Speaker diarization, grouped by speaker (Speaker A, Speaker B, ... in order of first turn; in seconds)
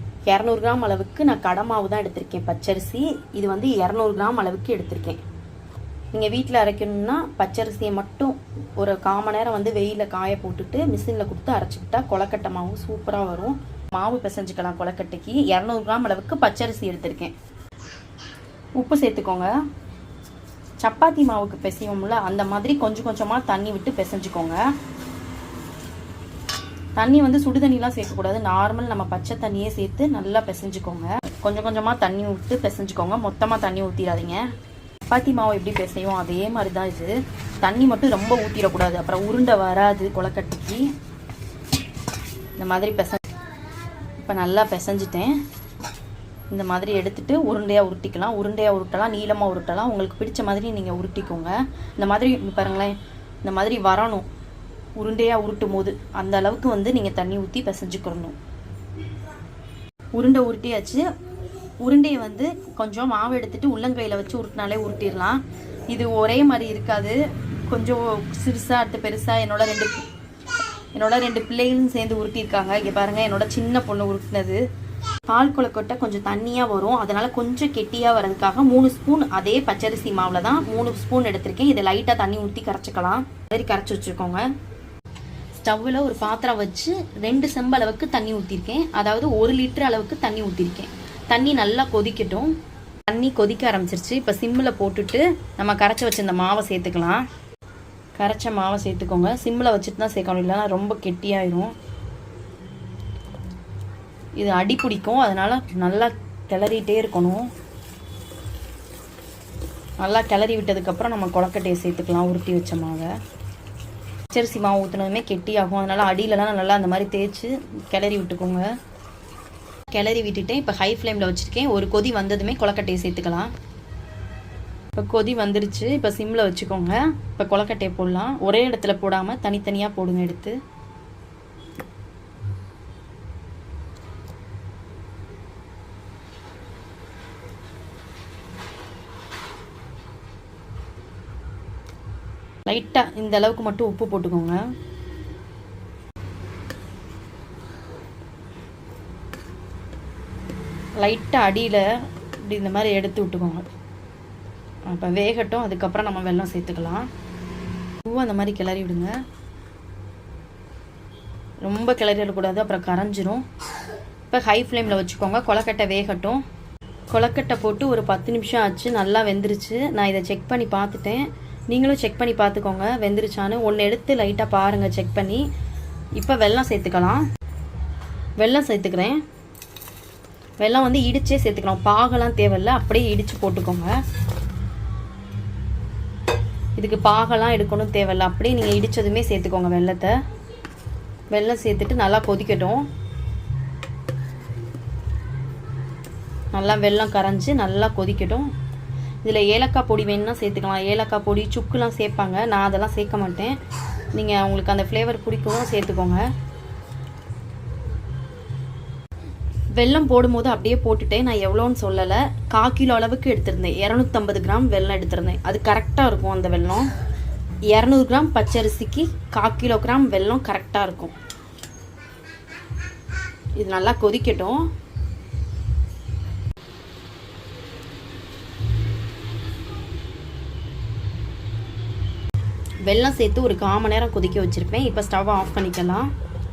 Speaker A: 0.3-5.2, 6.1-17.3, 18.8-19.5, 20.8-24.6, 27.0-34.4, 35.1-40.9, 42.6-43.2, 44.2-45.3, 46.5-54.3, 55.0-58.4, 60.1-61.0, 61.8-70.0, 70.9-74.6, 75.3-84.4, 85.5-92.5, 93.1-97.2, 98.2-101.7, 104.4-107.5, 110.0-113.1, 114.3-118.7, 119.9-123.5, 125.0-130.6, 142.7-144.6, 151.0-151.8, 152.5-153.6, 154.9-157.1, 158.0-159.1, 161.6-163.4, 164.3-166.4, 167.1-175.4, 176.2-177.2, 178.4-179.2, 180.6-183.9, 186.8-190.2, 191.3-192.9, 196.5-198.5, 199.2-203.6, 204.1-206.2, 209.8-216.9, 217.7-221.1, 223.6-224.7, 232.8-236.1